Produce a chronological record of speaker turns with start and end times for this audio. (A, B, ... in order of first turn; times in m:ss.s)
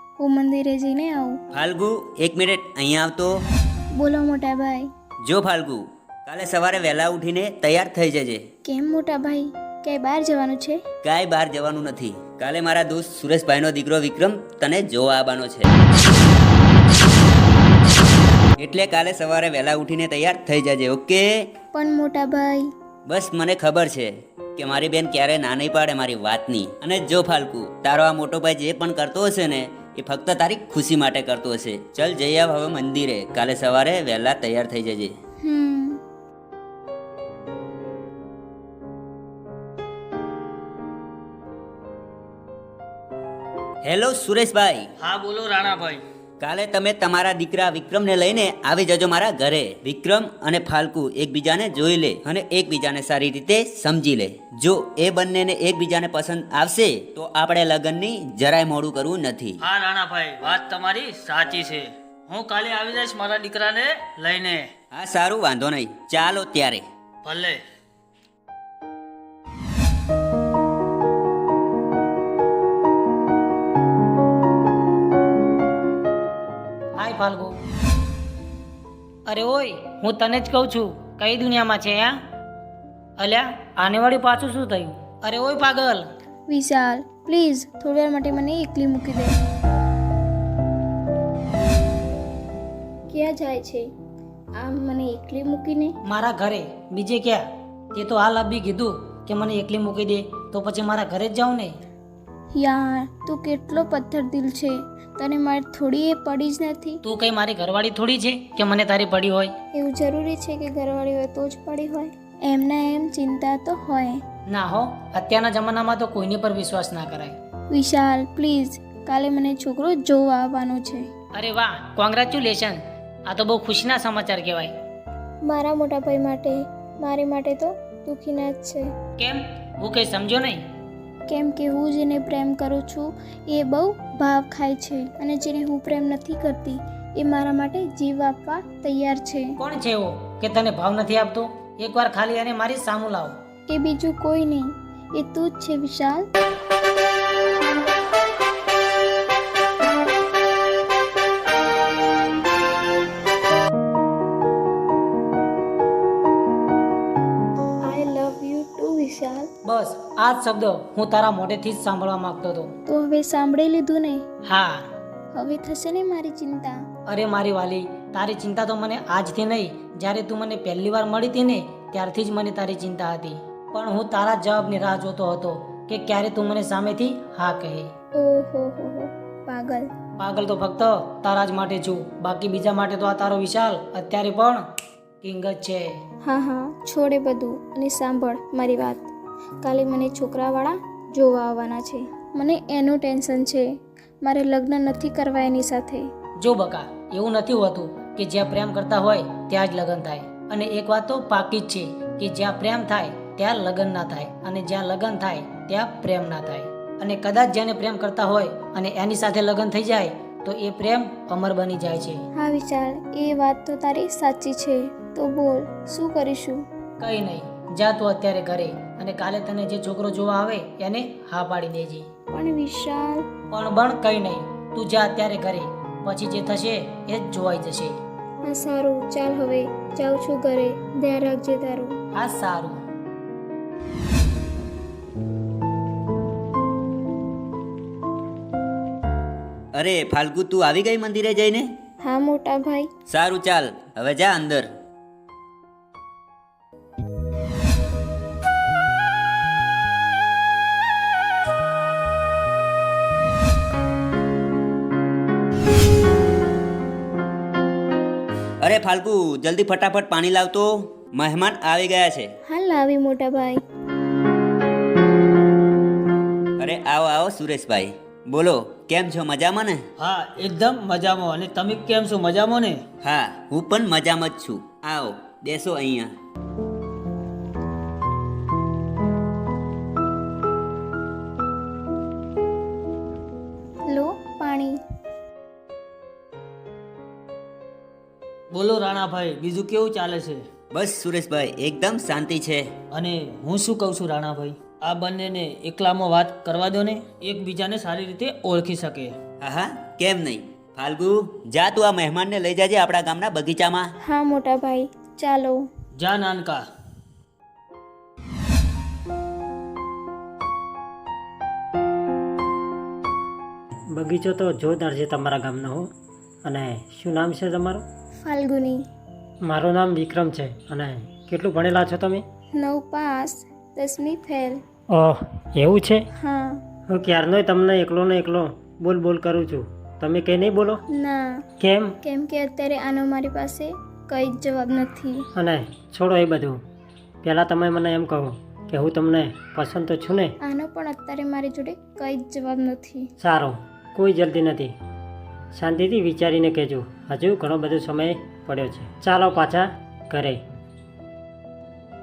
0:00.2-0:01.4 A
0:01.5-0:03.4 B
0:04.0-0:04.9 A
0:05.2-0:08.4 B
0:08.6-0:10.8 A
0:11.0-0:15.7 B
0:18.6-0:21.5 B
0:21.7-0:22.7 A
0:23.1-0:35.2 B
0:35.4-0:36.0 A
0:43.8-0:44.9 B
0:45.0-0:46.0 C
0:46.4-0:59.6 B
0:59.6-1:04.7 C
1:04.9-1:06.8 B
1:07.2-1:07.6 C
1:17.0-1:17.6 D
1:19.3-1:22.2 D
1:23.2-1:26.1 D
1:26.5-1:29.4 A
1:33.1-1:33.9 A
1:34.6-1:36.0 A
1:36.0-1:41.7 D
1:42.6-1:47.0 A
1:47.0-1:49.5 D
1:49.7-1:54.2 A
1:54.5-1:57.4 D
1:57.7-2:01.1 A
2:01.3-2:04.8 D
2:05.4-2:08.9 A
2:09.2-2:10.6 D
2:11.3-2:19.6 A
2:19.6-2:23.4 D
2:23.7-2:26.3 A
2:37.8-2:39.5 A
2:39.6-2:42.7 D
2:42.9-2:44.2 A
2:44.5-2:44.9 D
2:45.3-2:46.8 A
2:47.1-2:57.9 D
2:58.2-2:59.9 A
3:00.2-3:04.7 D
3:05.2-3:06.0 D
3:06.2-3:09.1 A
3:09.6-3:13.7 A
3:14.2-3:16.1 A
3:16.4-3:32.2 D
3:32.4-3:36.6 A
3:37.0-3:42.1 D
3:42.3-3:43.3 A
3:43.5-3:48.0 D
3:48.4-3:51.9 A
3:52.1-3:52.8 D
3:59.8-4:01.7 B
4:02.0-4:02.9 A
4:03.1-4:04.7 B
4:18.6-4:22.3 B
4:22.5-4:23.6 A
4:26.6-4:29.8 B
4:30.0-4:32.8 C
4:33.0-4:36.1 B
4:43.9-4:44.8 A
4:48.5-4:50.4 C
4:50.7-4:52.7 B
4:52.9-4:59.2 C
4:59.4-5:03.9 B
5:04.0-5:05.7 A
5:06.0-5:06.6 C
5:13.9-5:15.9 E
5:16.4-5:17.8 E
5:18.2-5:18.8 A
5:19.4-5:22.2 E
5:22.6-5:24.6 A
5:24.9-5:26.1 E
5:26.2-5:26.6 A
5:26.9-5:30.8 E
5:30.9-5:31.4 A
5:31.6-5:32.0 E
5:32.0-5:35.2 A
5:35.4-5:36.6 E
5:37.2-5:40.4 E
5:40.4-5:43.1 A
5:43.2-5:44.7 E
5:45.5-5:50.4 E